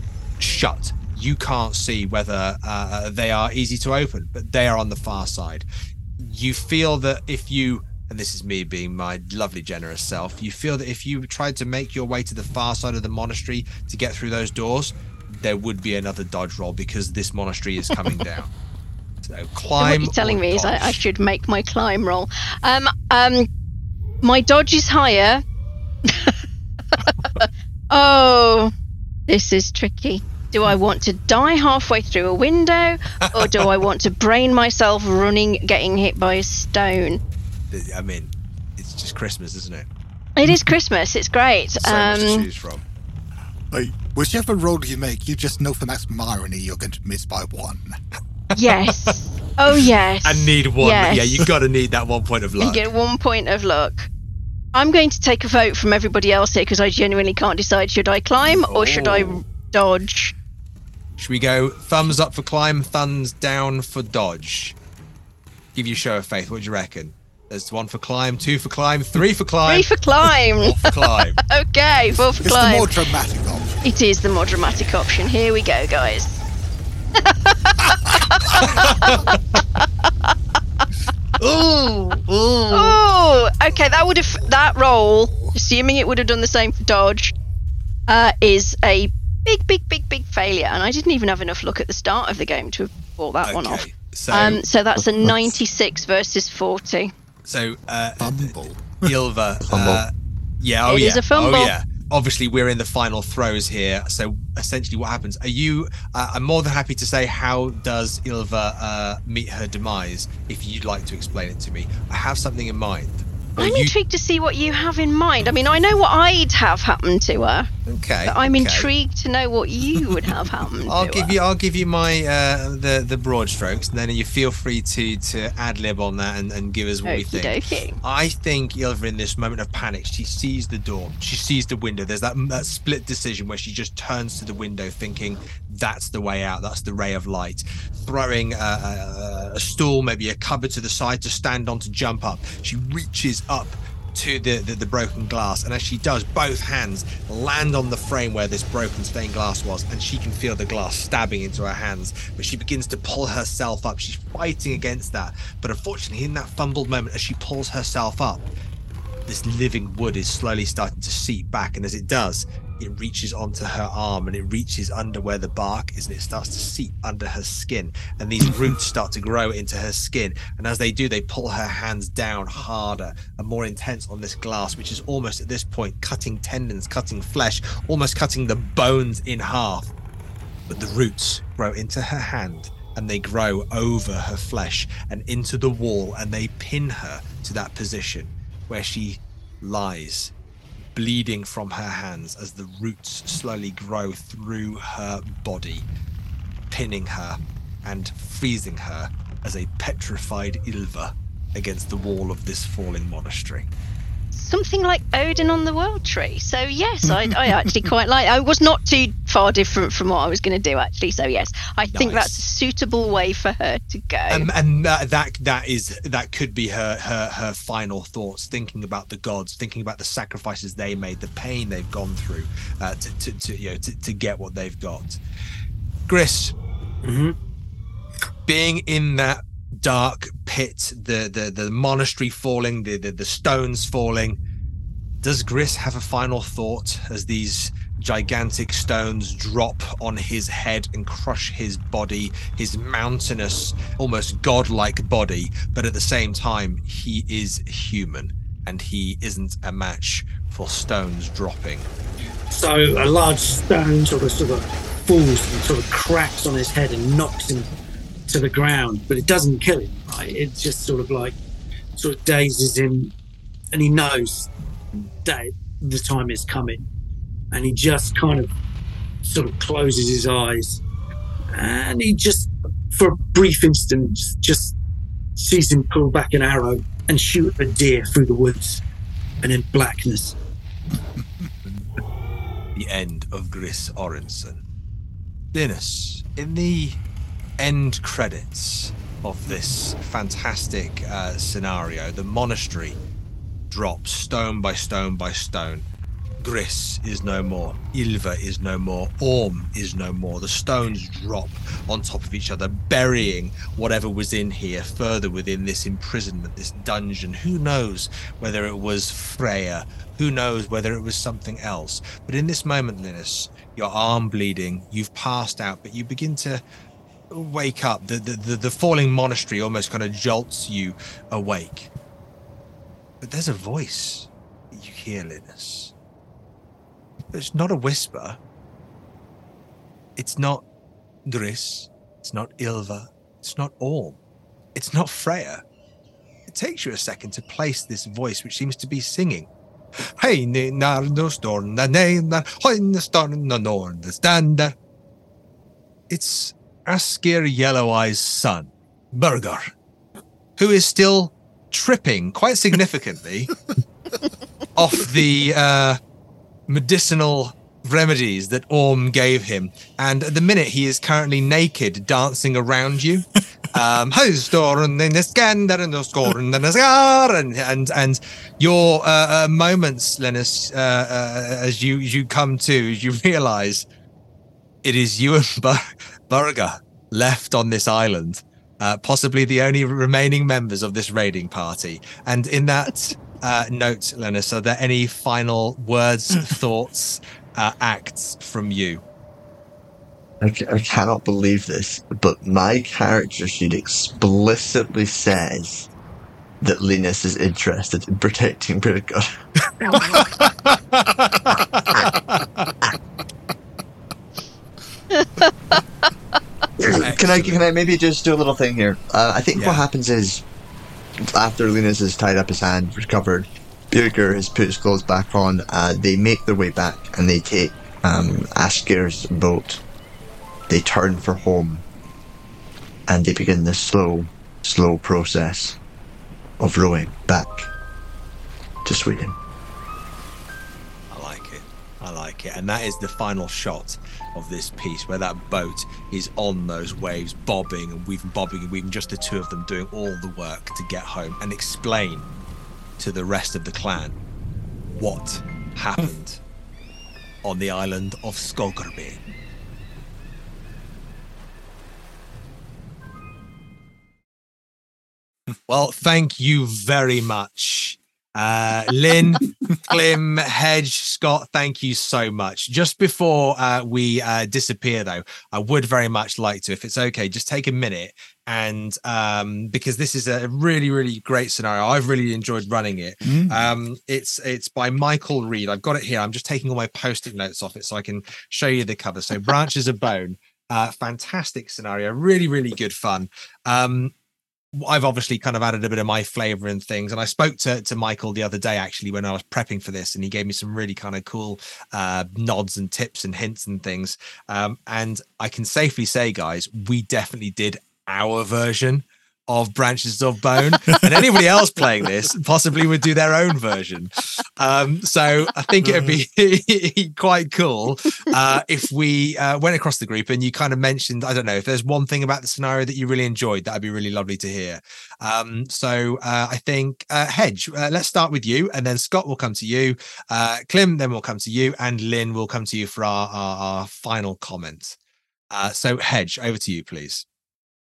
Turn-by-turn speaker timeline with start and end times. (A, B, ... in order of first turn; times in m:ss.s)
0:00.4-0:05.6 A
0:06.2-0:18.5 A
0:19.2-0:21.0 A
0:19.8-0:23.5 B
0:24.2-0:25.4 B
0:26.1-0:26.4 B
0:27.0-0:27.2 B
0:27.9-0:28.7 B
0:29.3-0:37.2 B
0:33.2-0:33.7 A
0:37.7-0:39.9 A
0:40.4-0:42.5 B
0:41.8-0:42.8 A
0:43.7-0:47.9 C
0:48.5-0:49.1 A
0:48.5-0:51.5 B
0:50.2-0:52.8 A
0:52.6-0:54.1 B
0:54.7-1:00.3 B
0:58.7-0:59.4 A
1:01.2-1:04.8 A
1:05.7-1:09.9 A
1:09.7-1:13.0 B
1:10.6-1:11.4 A
1:12.4-1:13.7 C
1:13.8-1:16.5 B
1:17.2-1:19.2 B
1:18.5-1:19.6 A
1:19.7-1:20.1 B
1:21.4-1:23.0 A
1:22.7-1:27.3 B
1:28.1-1:37.1 B
1:33.4-1:34.6 A
1:37.5-1:38.5 A
1:38.2-1:40.0 C
1:39.0-1:53.9 A
1:40.9-1:41.7 B
1:53.6-1:57.7 B
1:57.9-1:58.9 A
1:58.2-2:01.3 B
2:00.8-2:38.4 A
2:07.0-2:08.0 B
2:39.2-2:59.9 A
3:00.7-3:10.3 A
3:10.9-3:15.8 A
3:16.7-3:23.7 A
3:24.3-3:34.5 B
3:31.9-3:32.4 A
3:34.3-3:45.2 A
3:46.1-3:46.5 A
3:47.0-3:47.4 D
3:48.5-3:54.4 A
3:55.2-4:11.9 A
4:12.5-4:17.7 D
4:18.3-4:21.4 D
4:22.0-4:23.1 D
4:23.7-4:26.9 D
4:27.5-4:28.5 D
4:29.2-4:30.8 D
4:31.5-4:34.8 D
4:35.4-4:38.8 D
4:39.4-4:40.4 D
4:40.9-4:41.5 C
4:41.6-4:41.9 A
4:42.7-4:44.6 A
4:45.5-4:47.0 A
4:47.6-4:53.0 A
4:53.7-4:55.8 A
4:56.4-5:16.6 A
5:17.3-5:21.9 A
5:23.2-5:25.9 A
5:27.3-5:28.4 A
5:30.2-5:30.6 A
5:31.2-5:34.2 A
5:34.7-5:35.6 A
5:36.5-5:39.5 A
5:40.2-5:44.8 A
5:46.1-5:49.7 A
5:50.6-5:53.5 A
5:54.7-5:56.0 A
5:56.7-6:13.9 A
6:14.8-6:29.0 A
6:30.4-6:35.9 E
6:36.6-6:39.3 E
6:39.7-6:42.7 A
6:46.8-6:50.4 E
6:46.9-6:47.6 A
6:49.6-6:49.8 A
6:51.3-6:59.8 E
7:00.7-7:01.8 E
7:03.1-7:05.8 E
7:06.6-7:07.7 E
7:08.8-7:09.4 E
7:11.1-7:22.3 A
7:23.0-7:24.2 A
7:24.9-7:26.4 A
7:27.4-7:29.2 A
7:35.7-8:04.1 A
7:53.2-7:53.7 C
8:04.7-8:45.0 A
8:25.9-8:26.1 C
8:45.5-8:47.2 A